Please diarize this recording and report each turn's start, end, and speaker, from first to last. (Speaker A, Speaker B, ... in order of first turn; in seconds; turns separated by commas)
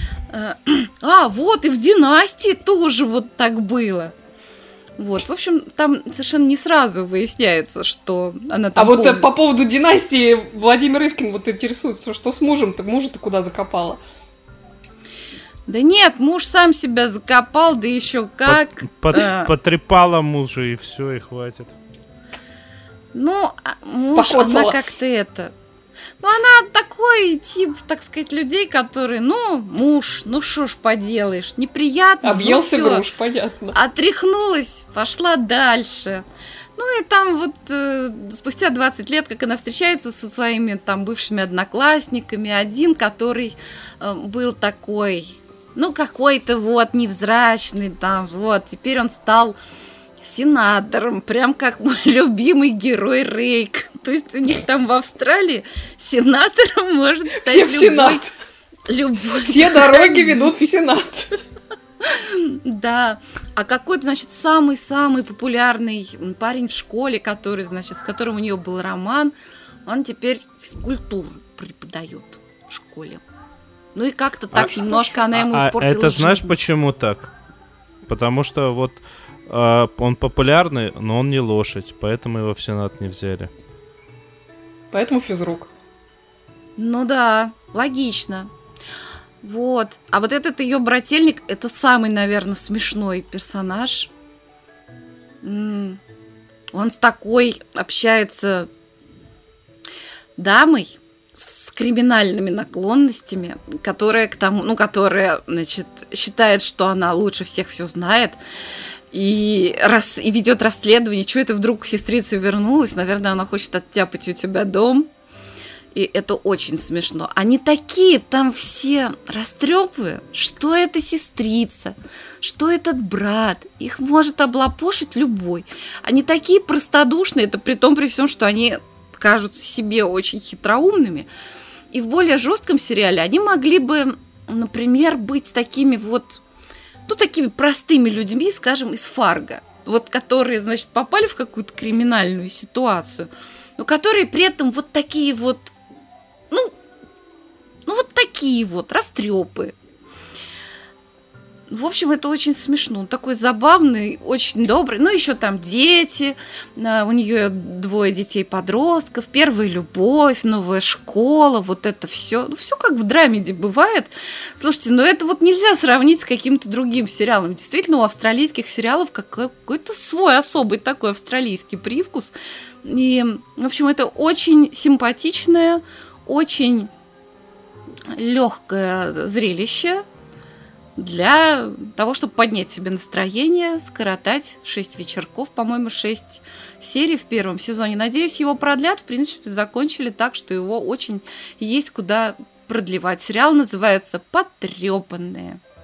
Speaker A: 0.3-4.1, Speaker A: 5.0-9.3, Speaker B: 8.8-14.0, Speaker A: 15.7-19.5, Speaker C: 18.5-21.7, Speaker A: 23.1-25.5, Speaker B: 24.1-24.8, Speaker A: 26.2-33.0, Speaker B: 32.2-33.8, Speaker A: 33.7-36.2, Speaker A: 36.8-49.6, Speaker A: 50.2-58.2, Speaker B: 57.4-58.3, Speaker A: 58.9-60.7, Speaker B: 59.4-61.3, Speaker A: 62.0-69.3, Speaker A: 69.9-73.2, Speaker A: 74.0-76.6, Speaker C: 74.5-77.3, Speaker C: 78.1-83.5, Speaker B: 84.9-85.7, Speaker A: 86.8-88.5, Speaker A: 89.4-94.1, Speaker A: 95.4-96.0, Speaker A: 96.7-98.7, Speaker A: 100.4-108.4, Speaker A: 109.1-115.1, Speaker A: 115.9-131.3, Speaker A: 131.9-136.4, Speaker A: 137.1-145.7, Speaker A: 147.9-149.7, Speaker A: 151.7-172.3, Speaker A: 172.8-176.9, Speaker A: 178.1-180.0, Speaker A: 181.0-195.6